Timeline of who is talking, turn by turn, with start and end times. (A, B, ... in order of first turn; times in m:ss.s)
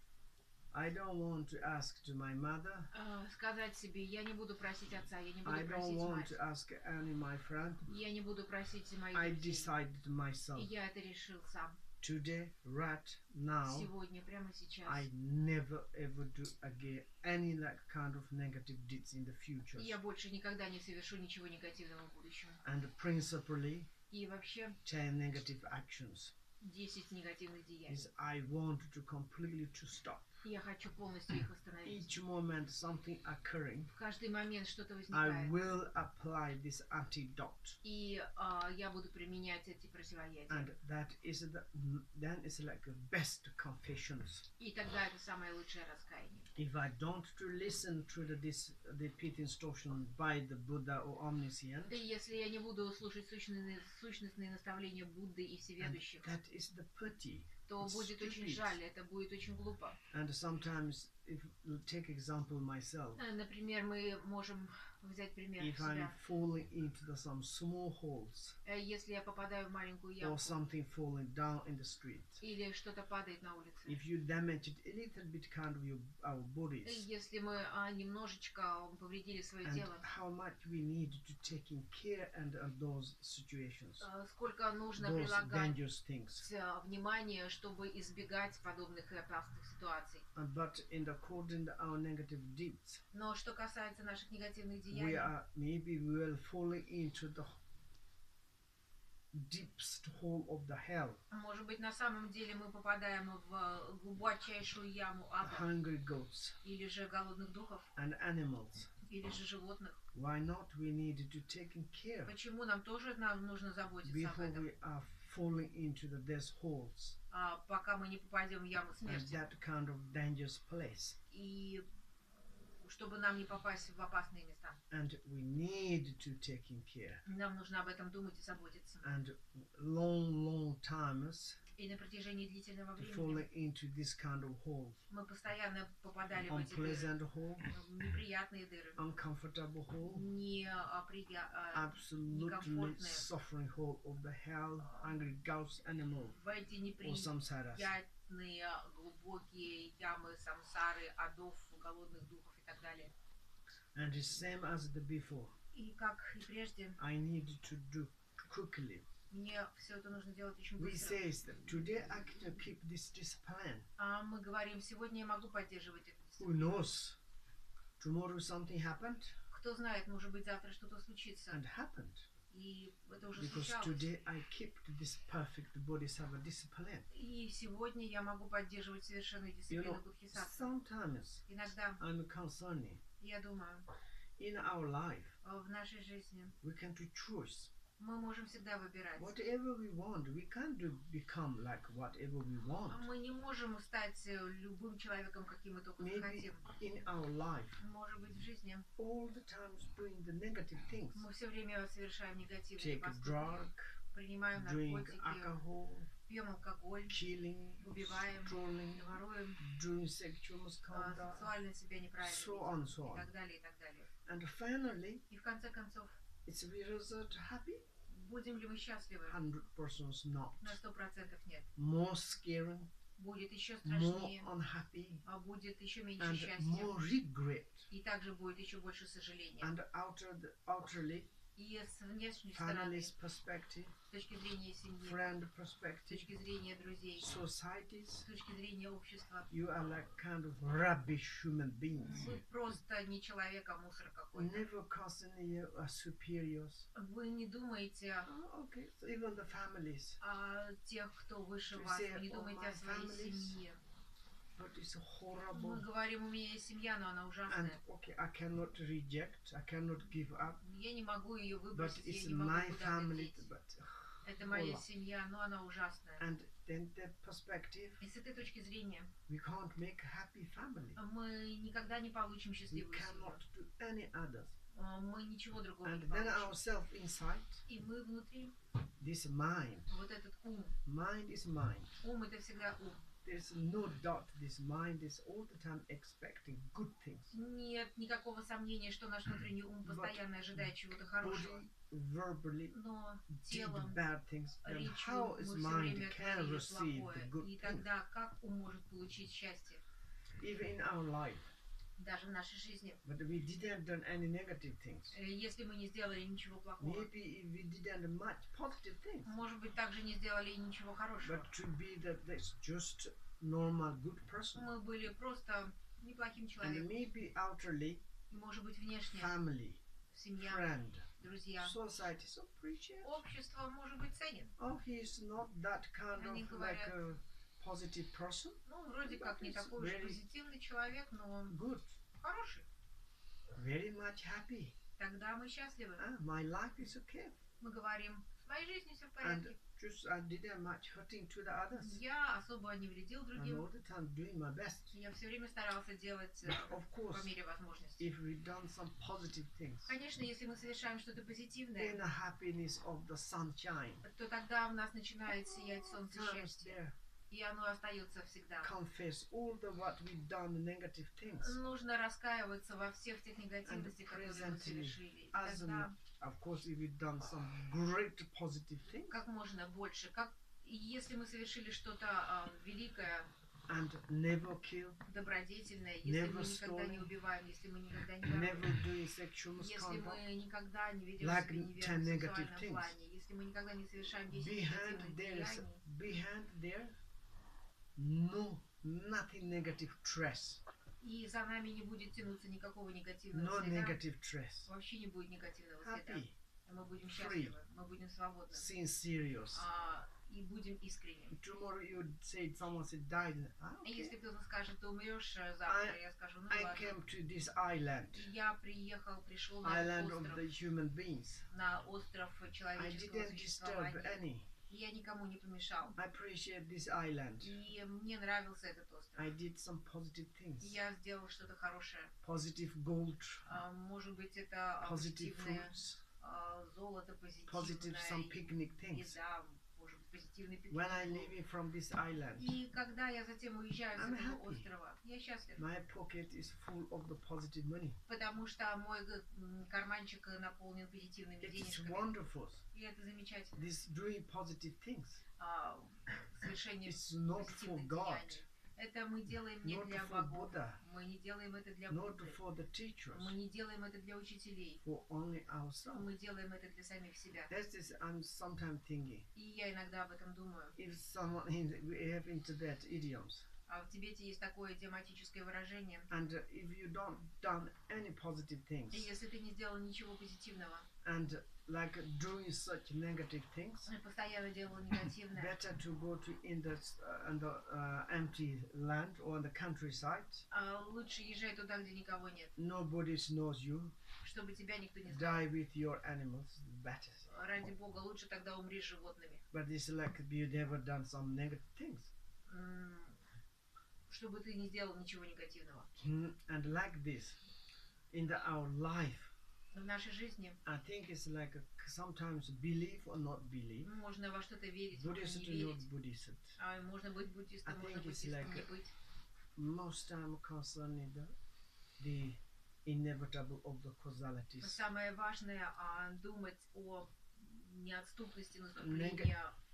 0:00.7-0:02.9 A
0:02.9-0:06.4 B
0:05.4-0:07.9 A
0:07.9-0:09.7 B
0:09.1-0:10.7 A
0:10.5-0:11.8 B
0:12.0-0:13.9 A
0:13.6-0:15.1 B
0:14.8-0:19.9 A
0:19.8-0:22.6 B
0:22.6-0:23.9 A
0:24.1-0:24.8 B
0:24.8-0:26.3 A
0:26.6-0:28.1 B
0:27.9-0:30.3 A
0:30.4-0:32.1 B
0:31.8-0:33.9 A
0:33.9-0:35.5 B
0:35.1-0:37.8 A
0:37.8-0:40.7 B
0:40.5-0:44.5 A
0:44.6-0:46.5 B
0:46.6-0:52.0 A
0:51.9-0:56.3 B
0:55.8-0:58.8 A
0:57.7-1:00.0 B
1:00.1-1:03.2 A
1:03.2-1:06.1 B
1:05.6-1:08.6 A
1:08.6-1:10.6 B
1:10.2-1:12.4 A
1:12.4-1:14.0 B
1:13.8-1:17.0 A
1:16.8-1:20.0 B
1:19.6-1:24.1 A
1:24.0-1:25.8 B
1:25.0-1:26.5 A
1:26.4-1:30.2 B
1:30.3-1:33.0 A
1:33.1-1:35.3 B
1:34.9-1:37.6 A
1:39.3-1:41.2 A
1:41.3-1:45.7 B
1:45.4-1:46.6 A
1:46.6-1:47.9 B
1:48.0-1:48.9 A
1:49.0-1:50.0 B
1:50.1-1:52.4 A
1:52.2-1:54.6 B
1:54.0-1:57.2 A
1:57.3-1:59.4 B
1:59.0-2:01.2 A
2:01.3-2:01.8 B
2:02.8-2:04.8 B
2:04.9-2:07.2 A
2:07.2-2:09.1 B
2:09.0-2:11.6 A
2:11.8-2:13.4 B
2:13.0-2:15.0 A
2:15.1-2:17.1 B
2:16.4-2:17.6 A
2:17.7-2:19.0 B
2:19.0-2:20.2 A
2:20.1-2:23.3 B
2:21.7-2:26.4 A
2:26.4-2:33.1 B
2:27.0-2:27.9 A
2:33.9-2:35.5 A
2:35.7-2:37.0 B
2:37.0-2:39.1 A
2:39.3-2:41.2 B
2:40.8-2:43.9 A
2:44.0-2:46.8 B
2:46.4-2:47.2 A
2:48.0-2:49.4 A
2:49.5-2:51.6 B
2:51.5-2:52.3 A
2:52.5-2:54.1 B
2:53.4-2:57.1 A
2:57.1-3:00.7 B
2:59.7-3:01.4 A
3:01.5-3:02.0 B
3:02.0-3:03.0 A
3:03.2-3:03.9 B
3:04.4-3:05.3 A
3:05.4-3:06.6 B
3:06.6-3:07.7 A
3:08.0-3:09.3 B
3:09.2-3:13.1 A
3:12.9-3:16.6 B
3:16.0-3:17.8 A
3:17.8-3:18.9 B
3:19.0-3:21.3 A
3:21.1-3:25.6 B
3:22.8-3:24.0 A
3:24.5-3:26.1 A
3:26.3-3:27.2 B
3:27.1-3:31.5 A
3:27.8-3:29.6 B
3:30.9-3:34.1 B
3:32.2-3:33.3 A
3:34.2-3:35.2 A
3:35.3-3:36.1 B
3:36.4-3:37.8 A
3:38.1-3:39.4 B
3:39.2-3:40.8 A
3:40.6-3:41.7 B
3:41.8-3:42.9 A
3:43.2-3:44.5 B
3:43.8-3:45.2 A
3:45.2-3:47.0 B
3:46.2-3:47.9 A
3:47.9-3:49.7 B
3:49.6-3:51.3 A
3:51.6-3:53.1 B
3:52.5-3:53.9 A
3:54.1-3:55.2 B
3:55.0-3:56.3 A
3:56.1-3:57.3 B
3:57.2-3:58.2 A
3:58.2-3:59.5 B
3:59.5-4:02.4 A
4:02.0-4:04.6 B
4:04.3-4:06.9 A
4:06.9-4:08.3 B
4:08.3-4:10.2 A
4:10.2-4:13.8 B
4:11.7-4:13.6 A
4:14.5-4:15.9 A
4:15.5-4:17.8 B
4:17.5-4:20.6 A
4:20.6-4:23.5 B
4:21.7-4:24.8 A
4:24.2-4:26.3 B
4:26.2-4:28.0 A
4:28.0-4:29.1 B
4:29.3-4:31.0 A
4:31.0-4:33.4 B
4:32.7-4:34.5 A
4:34.7-4:36.6 B
4:35.8-4:37.6 A
4:37.6-4:38.5 B
4:39.0-4:39.9 A
4:39.9-4:40.8 B
4:40.8-4:42.0 A
4:42.0-4:43.0 B
4:43.2-4:47.3 A
4:47.3-4:51.6 B
4:49.8-4:50.2 A
4:51.2-4:52.8 A
4:52.7-4:54.0 B
4:53.3-4:57.9 A
4:54.6-4:59.8 B
5:00.4-5:01.5 A
5:02.0-5:03.0 B
5:03.0-5:05.2 A
5:05.1-5:07.1 B
5:06.8-5:09.3 A
5:09.2-5:11.5 B
5:11.2-5:14.7 A
5:14.5-5:16.9 B
5:16.6-5:18.0 A
5:18.3-5:19.3 B
5:19.1-5:19.8 A
5:20.1-5:21.8 B
5:20.4-5:21.1 A
5:21.6-5:23.2 A
5:23.0-5:24.5 B
5:24.6-5:30.2 A
5:26.2-5:26.9 B
5:28.6-5:31.6 B
5:31.5-5:32.0 A
5:32.1-5:32.6 B
5:33.5-5:34.8 A
5:35.0-5:36.0 B
5:36.0-5:37.4 A
5:37.6-5:39.6 B
5:39.2-5:42.0 A
5:41.8-5:43.7 B
5:43.3-5:44.9 A
5:44.9-5:48.1 B
5:46.4-5:47.3 A
5:48.0-5:49.9 A
5:49.9-5:52.0 B
5:51.8-5:54.0 A
5:54.0-5:56.8 B
5:55.9-5:56.9 A
5:57.3-5:58.7 B
5:58.6-6:01.6 A
6:01.3-6:06.0 B
6:03.6-6:09.2 A
6:09.1-6:13.3 B
6:13.7-6:15.0 A
6:15.0-6:18.7 B
6:16.0-6:17.1 A
6:18.2-6:20.2 A
6:19.6-6:25.8 B
6:21.2-6:22.9 A
6:24.3-6:27.0 A
6:28.0-6:30.6 A
6:31.0-6:34.0 B
6:33.3-6:34.7 A
6:34.6-6:38.7 B
6:35.8-6:36.4 A
6:37.0-6:37.6 A
6:38.5-6:39.7 A
6:39.5-6:41.4 B
6:41.3-6:44.1 A
6:43.8-6:47.0 B
6:45.6-6:48.3 A
6:48.1-6:50.4 B
6:49.6-6:51.5 A
6:51.5-6:56.0 B
6:52.7-6:54.5 A
6:56.0-6:57.5 A
6:57.4-6:59.4 B
6:59.2-7:00.8 A
7:00.6-7:02.1 B
7:02.2-7:03.4 A
7:03.4-7:08.4 B
7:04.8-7:06.0 A
7:07.4-7:09.2 A
7:08.9-7:11.3 B
7:10.7-7:12.6 A
7:12.4-7:15.6 B
7:13.9-7:14.7 A
7:15.6-7:18.0 A
7:18.1-7:22.1 B
7:21.4-7:22.6 A
7:22.7-7:23.6 B
7:23.5-7:25.2 A
7:25.4-7:32.4 B
7:26.8-7:28.4 A
7:29.6-7:30.8 A
7:31.9-7:33.4 A
7:33.1-7:34.8 B
7:34.8-7:36.1 A
7:35.9-7:37.5 B
7:37.5-7:39.3 A
7:39.3-7:40.8 B
7:40.8-7:43.5 A
7:43.7-7:46.1 B
7:46.1-7:49.1 A
7:48.9-7:50.9 B
7:51.0-7:53.9 A
7:53.8-7:55.6 B
7:55.3-8:00.4 A
8:00.5-8:02.5 B
8:02.6-8:04.0 A
8:04.2-8:05.4 B
8:05.1-8:07.3 A
8:07.3-8:09.4 B
8:09.5-8:12.1 A
8:12.5-8:13.2 B
8:14.1-8:15.9 B
8:16.0-8:17.4 A
8:18.1-8:19.3 A
8:19.7-8:20.6 B
8:20.6-8:23.9 A
8:23.8-8:25.8 B
8:24.9-8:26.6 A
8:26.6-8:28.9 B
8:27.6-8:28.7 A
8:29.6-8:31.3 A
8:32.0-8:34.8 A
8:34.6-8:39.6 B
8:38.8-8:39.3 A